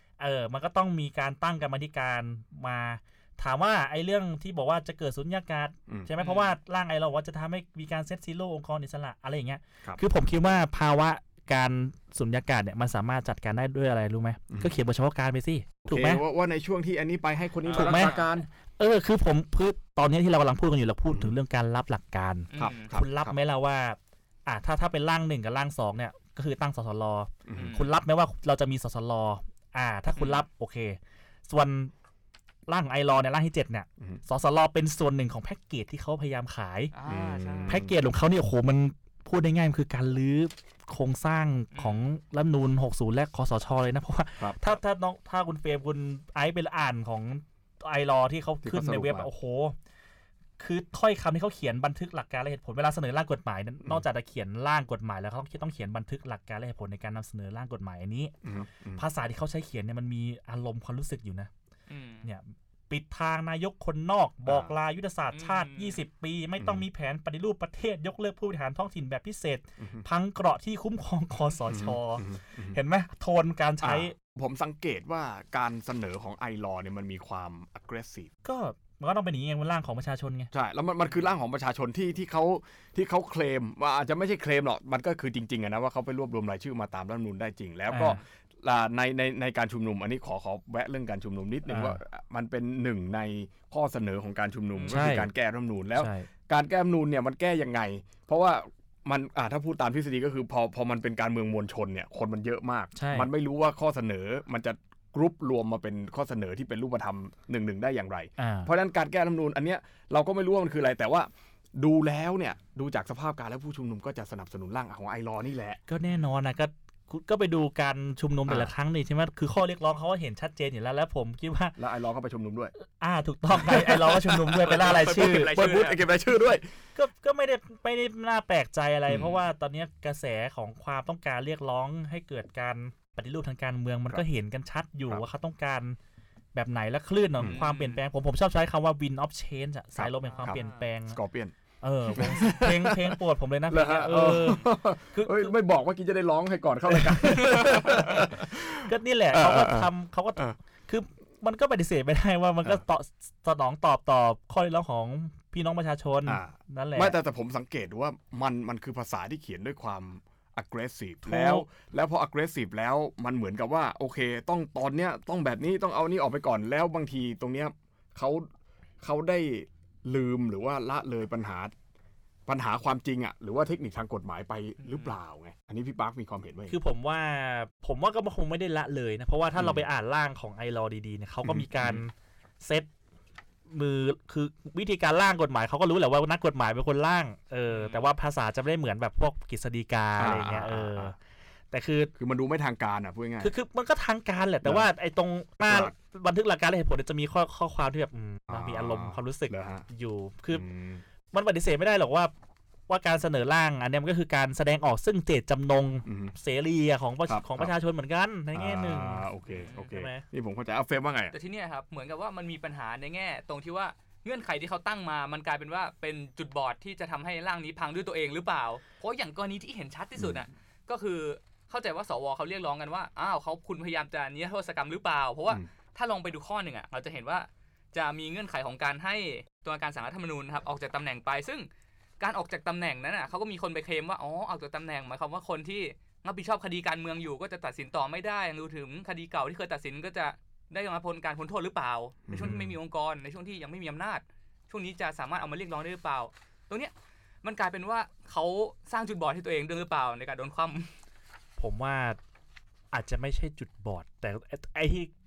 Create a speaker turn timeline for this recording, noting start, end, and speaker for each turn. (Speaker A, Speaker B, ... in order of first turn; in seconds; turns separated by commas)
Speaker A: 0.2-16.2, Speaker B: 6.2-6.5, Speaker C: 15.9-18.5, Speaker B: 17.6-18.3, Speaker A: 17.7-18.2, Speaker A: 18.8-31.9, Speaker B: 22.5-22.9, Speaker C: 22.6-23.4, Speaker C: 27.5-27.8, Speaker B: 27.5-27.9, Speaker B: 30.2-30.4, Speaker A: 32.7-36.9, Speaker B: 36.9-37.8, Speaker C: 37.1-38.0, Speaker A: 37.7-49.8, Speaker B: 41.7-42.0, Speaker C: 48.6-49.3, Speaker A: 50.6-58.4, Speaker C: 58.4-59.0, Speaker A: 59.0-61.5, Speaker B: 61.9-62.2, Speaker A: 62.2-74.2, Speaker C: 64.5-64.7, Speaker B: 65.3-66.0, Speaker C: 66.6-66.8, Speaker C: 69.8-70.0, Speaker C: 71.7-72.8, Speaker C: 73.8-78.3, Speaker A: 78.4-80.5, Speaker C: 80.5-115.8, Speaker A: 87.9-88.2, Speaker A: 91.7-92.0, Speaker B: 94.8-95.0, Speaker A: 94.9-95.3, Speaker A: 96.0-96.3, Speaker A: 103.0-103.3, Speaker A: 108.4-108.7, Speaker A: 115.9-121.8, Speaker C: 118.5-118.7, Speaker C: 121.8-122.7, Speaker A: 123.0-126.0, Speaker C: 123.6-126.7, Speaker B: 124.7-126.1, Speaker A: 127.0-136.0, Speaker C: 129.1-129.4, Speaker A: 136.6-141.2, Speaker B: 137.4-138.0, Speaker C: 140.0-141.5, Speaker B: 140.3-140.9, Speaker A: 141.8-145.6, Speaker C: 142.1-143.2, Speaker C: 143.7-150.6, Speaker A: 146.9-157.2, Speaker B: 147.4-147.9, Speaker C: 156.3-168.5, Speaker A: 161.2-161.7, Speaker C: 169.0-171.7, Speaker C: 172.5-176.8, Speaker B: 174.8-175.1, Speaker A: 176.7-182.9, Speaker C: 179.6-179.8, Speaker C: 181.4-182.0, Speaker A: 183.7-191.2, Speaker B: 187.7-188.1, Speaker C: 190.2-191.1, Speaker A: 191.7-192.1, Speaker C: 192.2-193.5, Speaker A: 193.4-200.7, Speaker C: 195.7-195.9, Speaker C: 198.5-199.8, Speaker C: 200.5-201.0, Speaker A: 201.3-202.3, Speaker A: 202.9-210.2, Speaker C: 206.1-206.3, Speaker C: 207.3-207.7, Speaker C: 208.5-211.3, Speaker B: 209.5-209.9, Speaker B: 211.3-231.7, Speaker B: 232.2-246.9, Speaker C: 242.3-242.6, Speaker A: 242.4-242.8, Speaker B: 247.4-250.9, Speaker A: 251.6-252.2, Speaker A: 252.9-255.1